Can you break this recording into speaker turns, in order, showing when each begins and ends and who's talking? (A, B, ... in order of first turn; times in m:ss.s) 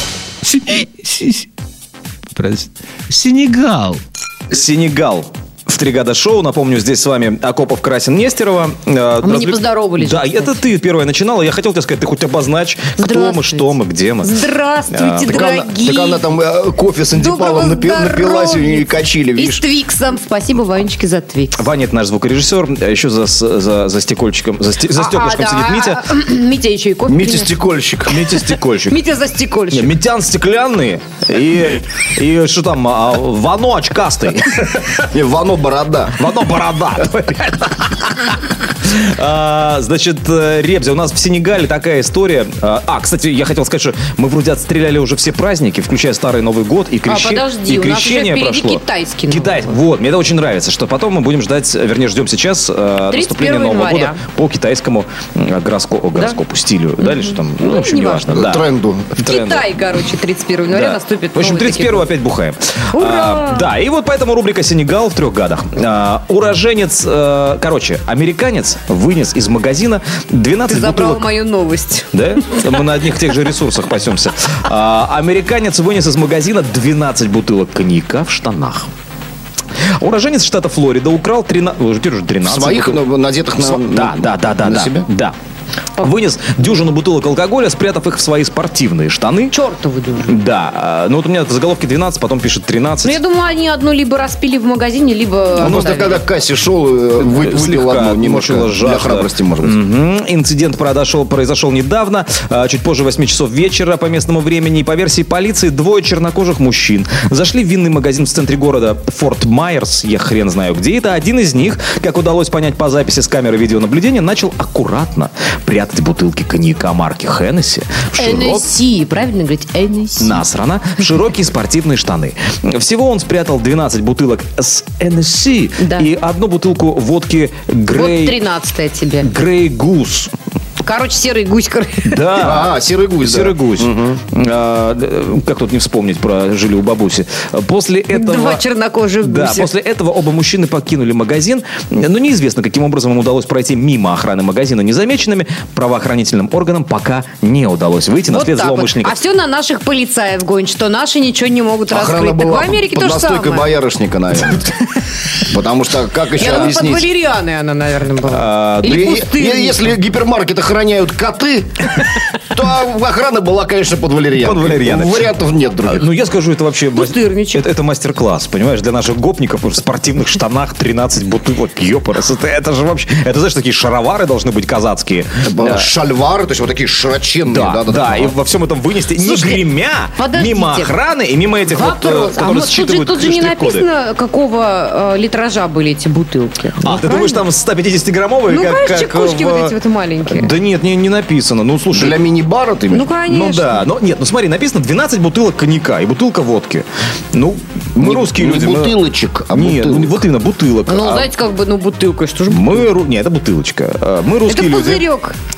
0:00.4-0:01.5 A
0:02.3-0:04.0 A
0:04.5-0:14.3 B
0:09.2-0:10.6 C
0:13.0-0:16.2 C
0:14.9-0:15.4 B
0:15.2-0:19.6 D
0:17.1-0:21.6 C
0:21.5-0:26.0 B
0:24.9-0:27.6 C
0:27.1-0:28.3 D
0:28.1-0:29.0 B
0:28.3-0:29.9 C
0:29.7-0:35.0 B
0:35.1-0:36.2 D
0:36.1-0:58.6 B
0:47.0-0:49.8 C
0:53.1-0:54.2 C
0:57.0-0:58.4 C
0:58.3-0:59.5 D
0:59.2-1:02.1 C
0:59.2-0:59.7 B
1:00.7-1:11.2 B
1:02.9-1:03.7 C
1:10.6-1:12.8 C
1:12.1-1:18.9 B
1:20.0-1:23.0 B
1:22.4-1:25.1 D
1:23.6-1:25.3 B
1:26.0-1:29.5 B
1:29.5-1:30.4 C
1:30.2-1:33.2 B
1:33.0-1:36.2 C
1:35.6-1:39.8 D
1:37.2-1:58.6 B
1:58.2-2:00.4 C
2:00.2-2:08.4 B
2:05.8-2:06.1 C
2:07.9-2:09.3 C
2:09.2-2:10.3 B
2:10.8-2:12.4 C
2:12.0-2:18.6 B
2:12.4-2:14.2 D
2:18.1-2:19.7 C
2:19.2-2:29.2 B
2:28.3-2:33.7 C
2:31.9-2:34.7 D
2:35.4-2:37.1 D
2:36.4-2:39.9 C
2:38.3-2:39.0 B
2:38.8-2:46.1 D
2:44.4-2:45.3 B
2:45.8-2:55.9 B
2:46.9-2:47.6 C
2:55.4-2:58.4 D
2:57.5-3:03.9 B
2:59.2-3:00.9 C
3:01.7-3:07.4 C
3:06.8-3:12.2 B
3:08.5-3:10.6 C
3:11.9-3:13.1 D
3:12.9-3:13.9 C
3:13.2-3:19.0 B
3:18.0-3:20.2 D
3:19.5-3:21.3 B
3:20.9-3:22.9 C
3:22.5-3:25.0 B
3:24.5-3:25.4 C